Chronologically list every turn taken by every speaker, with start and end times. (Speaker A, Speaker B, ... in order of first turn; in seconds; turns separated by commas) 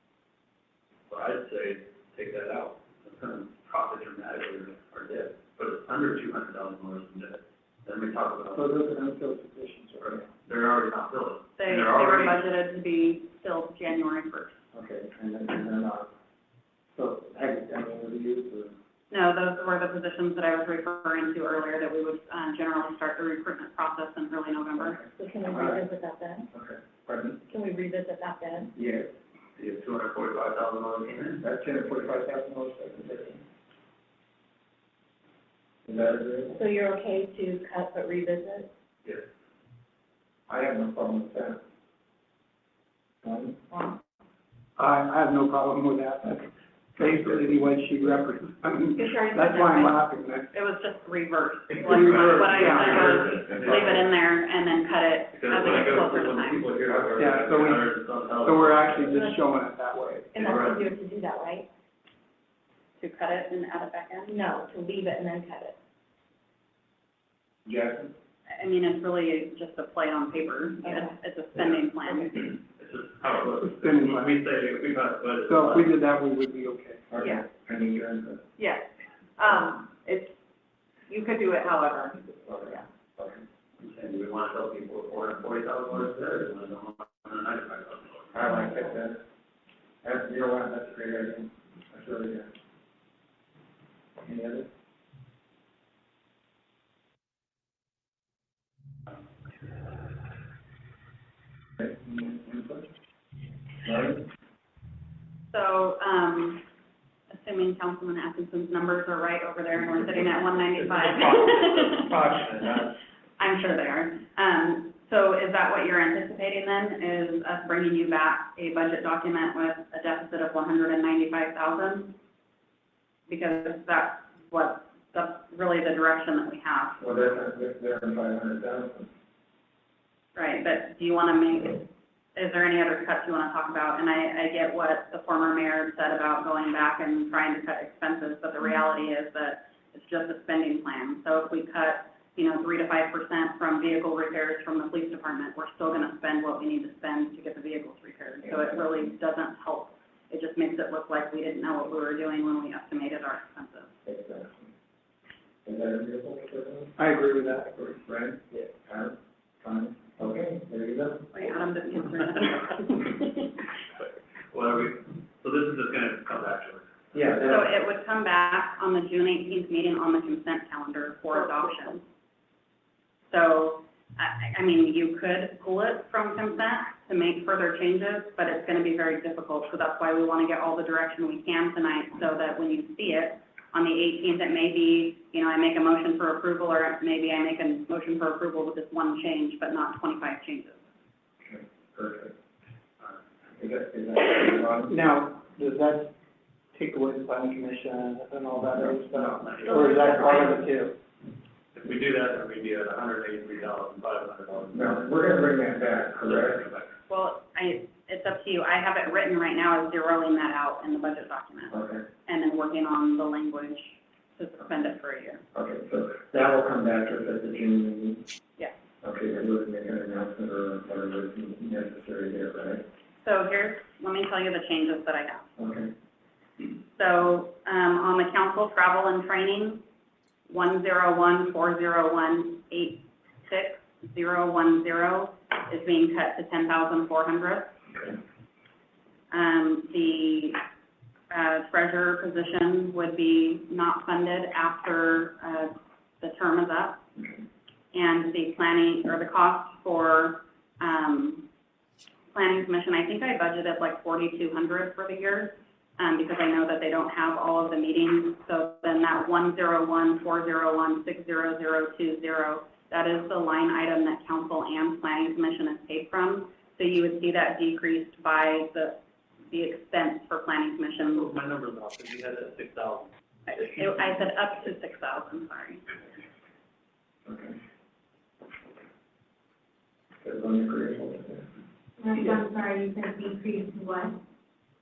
Speaker A: 1.1-8.6, Speaker B: 8.5-10.3, Speaker A: 10.0-12.4, Speaker C: 11.6-14.6, Speaker B: 14.7-16.1, Speaker B: 16.9-18.8, Speaker C: 19.1-25.0, Speaker B: 24.8-25.8, Speaker D: 25.2-26.5, Speaker B: 26.5-27.4, Speaker D: 27.5-28.7, Speaker B: 28.7-29.1, Speaker A: 29.6-31.4, Speaker B: 31.4-33.4, Speaker B: 35.9-36.6, Speaker D: 36.5-38.7, Speaker B: 40.5-41.6, Speaker B: 43.2-43.6, Speaker E: 44.8-50.5, Speaker C: 49.1-50.0, Speaker C: 50.5-56.6, Speaker E: 51.9-53.2, Speaker A: 51.9-54.0, Speaker A: 55.3-59.2, Speaker E: 57.2-60.3, Speaker D: 60.3-61.7, Speaker A: 60.4-60.8, Speaker C: 63.0-64.4, Speaker D: 64.3-65.8, Speaker B: 67.6-68.1, Speaker C: 68.5-72.5, Speaker D: 70.8-71.1, Speaker A: 72.3-76.0, Speaker E: 73.6-74.3, Speaker E: 75.4-77.0, Speaker B: 77.1-78.4, Speaker F: 77.2-77.4, Speaker F: 78.6-80.3, Speaker F: 81.1-82.2, Speaker B: 82.2-83.4, Speaker A: 83.8-88.4, Speaker B: 88.3-89.2, Speaker B: 90.0-92.5, Speaker B: 94.2-94.7, Speaker B: 101.8-102.9, Speaker B: 103.8-104.2, Speaker C: 105.5-106.6, Speaker C: 107.3-112.0, Speaker A: 110.7-112.9, Speaker C: 113.4-122.2, Speaker C: 123.3-127.0, Speaker B: 127.0-129.1, Speaker C: 130.3-153.9, Speaker B: 148.4-148.7, Speaker B: 154.1-154.7, Speaker B: 155.6-156.9, Speaker E: 157.0-157.9, Speaker B: 157.7-161.3, Speaker C: 161.3-163.2, Speaker A: 164.5-166.9, Speaker B: 167.1-167.7, Speaker C: 167.4-172.0, Speaker C: 173.3-190.8, Speaker B: 191.4-192.3, Speaker B: 193.6-195.0, Speaker E: 194.9-196.1, Speaker E: 196.7-200.9, Speaker B: 198.7-199.5, Speaker A: 199.4-200.4, Speaker C: 199.7-200.5, Speaker A: 201.7-205.1, Speaker B: 204.7-206.7, Speaker A: 206.2-206.9, Speaker C: 207.1-215.4, Speaker B: 211.7-212.0, Speaker B: 215.5-218.2, Speaker B: 219.0-222.8, Speaker C: 223.2-225.5, Speaker B: 225.6-225.9, Speaker C: 226.9-229.8, Speaker C: 230.5-237.8, Speaker C: 239.3-240.6, Speaker C: 241.3-247.0, Speaker C: 247.9-251.5, Speaker C: 252.3-271.3, Speaker A: 271.1-273.1, Speaker C: 273.5-275.8, Speaker B: 277.2-277.6, Speaker B: 280.2-281.5, Speaker D: 282.0-284.1